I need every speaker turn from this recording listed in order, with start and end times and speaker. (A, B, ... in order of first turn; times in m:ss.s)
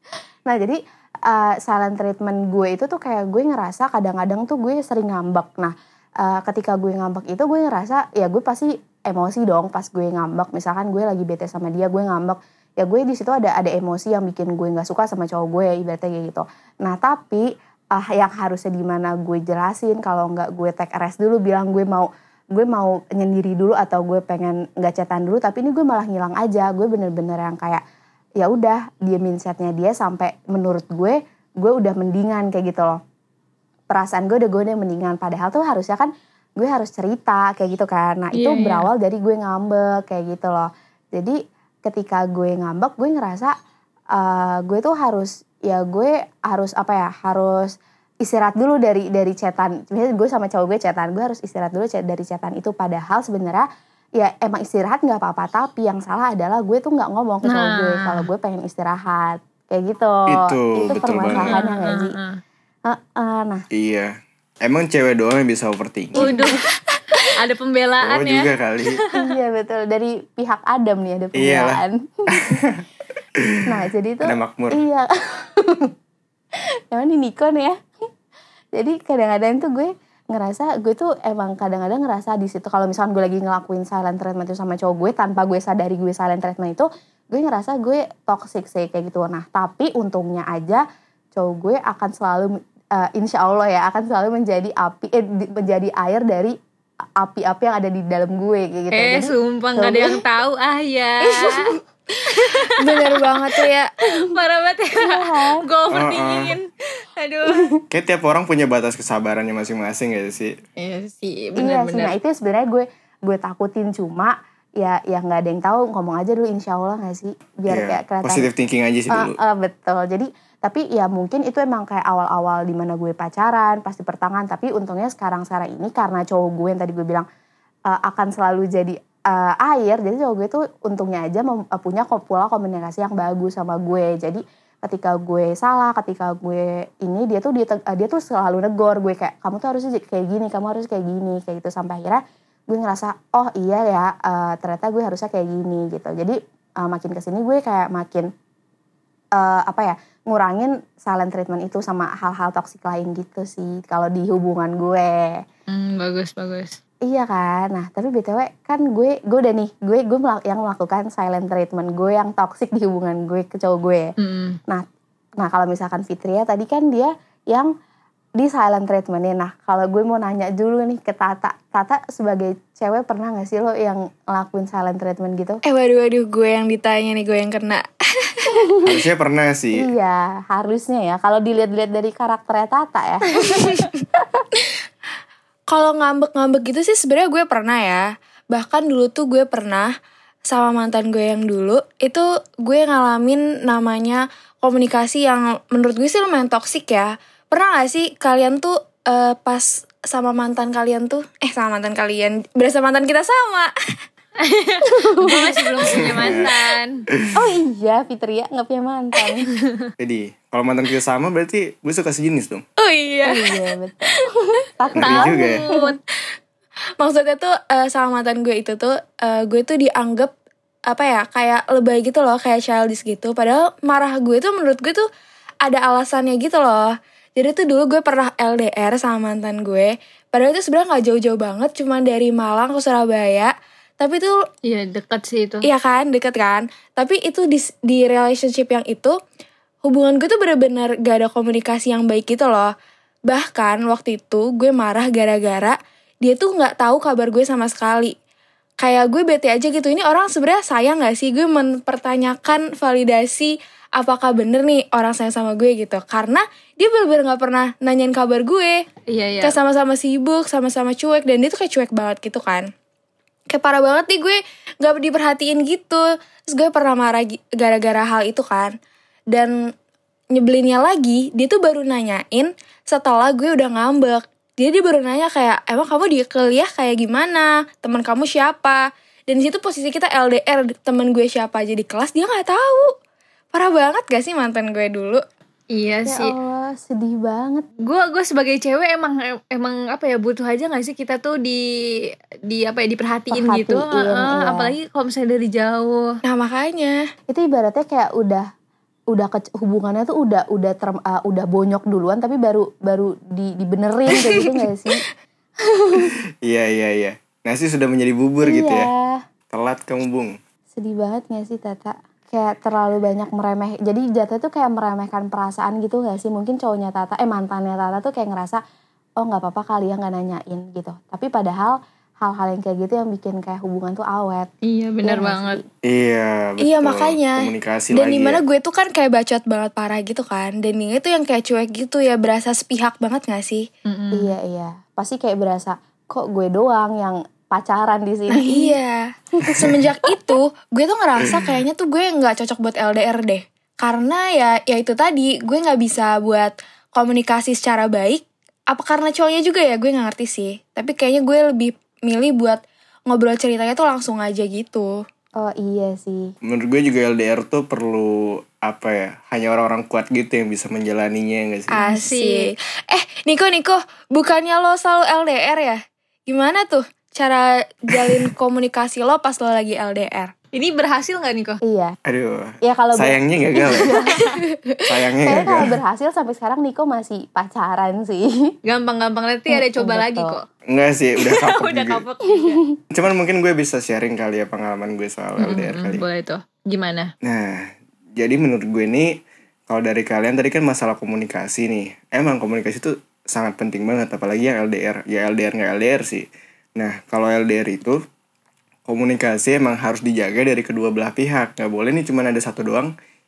0:00.5-0:27.8 A
0:28.4-0:33.0 A
0:33.9-0:43.5 A
0:38.3-0:38.9 B
0:44.1-0:53.7 A
0:54.2-1:02.2 A
0:57.5-0:58.2 B
1:00.3-1:01.6 C
1:01.4-1:02.4 B
1:02.8-1:03.6 A
1:03.7-1:06.3 C
1:06.2-1:06.6 A
1:06.2-1:06.6 B
1:07.3-1:09.1 B
1:08.0-1:09.0 C
1:09.1-1:12.6 A
1:11.4-1:12.8 C
1:13.4-1:13.6 C
1:13.6-1:15.9 A
1:14.2-1:14.8 C
1:16.9-1:17.8 A
1:18.8-1:30.8 A
1:31.4-1:36.6 A
1:37.2-1:40.2 A
1:38.9-1:41.8 B
1:42.3-1:47.7 B
1:42.7-1:43.9 D
1:45.0-1:45.6 A
1:45.9-1:46.6 C
1:47.5-1:47.8 A
1:47.9-1:50.6 C
1:50.8-1:52.2 B
1:51.6-1:58.5 A
1:57.7-1:59.4 C
1:59.1-2:07.3 A
2:07.9-2:28.3 A
2:29.4-2:35.4 A
2:35.7-2:36.8 B
2:37.0-2:44.1 A
2:44.2-2:44.6 B
2:45.4-2:47.7 A
2:48.4-2:55.6 A
2:55.6-2:58.6 D
2:58.8-2:59.9 C
2:59.8-3:04.4 A
3:05.7-3:09.9 D
3:10.5-3:23.7 D
3:24.4-3:27.0 B
3:25.2-3:25.4 A
3:26.0-3:26.5 C
3:27.3-3:29.5 A
3:30.0-3:32.6 C
3:32.8-3:33.8 D
3:33.2-3:35.9 A
3:34.9-3:36.0 B
3:35.0-3:35.6 C
3:37.0-3:40.3 D
3:40.9-3:45.1 D
3:45.6-3:54.4 D
3:54.6-3:55.7 B
3:55.6-3:59.2 D
3:59.8-4:02.7 D
4:03.3-4:08.1 D
4:08.8-4:18.8 D
4:19.1-4:19.6 B
4:19.4-4:22.7 D
4:23.5-4:28.8 D
4:30.3-4:42.9 D
4:43.5-4:45.2 D
4:45.7-4:46.3 B
4:46.1-4:47.7 A
4:47.8-4:51.6 B
4:52.5-4:56.1 B
4:53.3-4:54.7 A
4:56.2-4:57.0 D
4:57.3-4:58.5 A
4:59.1-5:05.0 A
5:04.2-5:05.0 D
5:05.6-5:06.2 A
5:06.4-5:08.9 C
5:08.4-5:09.2 A
5:09.5-5:10.4 C
5:10.7-5:18.6 A
5:19.2-5:24.5 A
5:24.6-5:25.6 B
5:25.0-5:25.7 A
5:25.8-5:28.4 C
5:26.6-5:33.7 D
5:33.9-5:34.3 B
5:34.1-5:38.8 A
5:38.3-5:39.0 D
5:39.4-5:40.1 A
5:39.5-5:55.0 D
5:41.2-5:41.5 C
5:55.4-5:56.3 A
5:56.4-6:01.8 C
6:01.7-6:10.3 D
6:01.8-6:02.5 B
6:10.6-6:11.6 B
6:11.6-6:12.0 A
6:12.0-6:14.0 C
6:12.6-6:14.3 A
6:14.8-6:15.8 C
6:15.3-6:18.6 A
6:18.6-6:20.4 B
6:19.5-6:20.4 A
6:20.7-6:22.0 C
6:21.2-6:22.6 B
6:22.4-6:22.8 A
6:22.9-6:26.0 C
6:25.4-6:27.1 B
6:27.2-6:38.0 C
6:38.9-6:42.9 C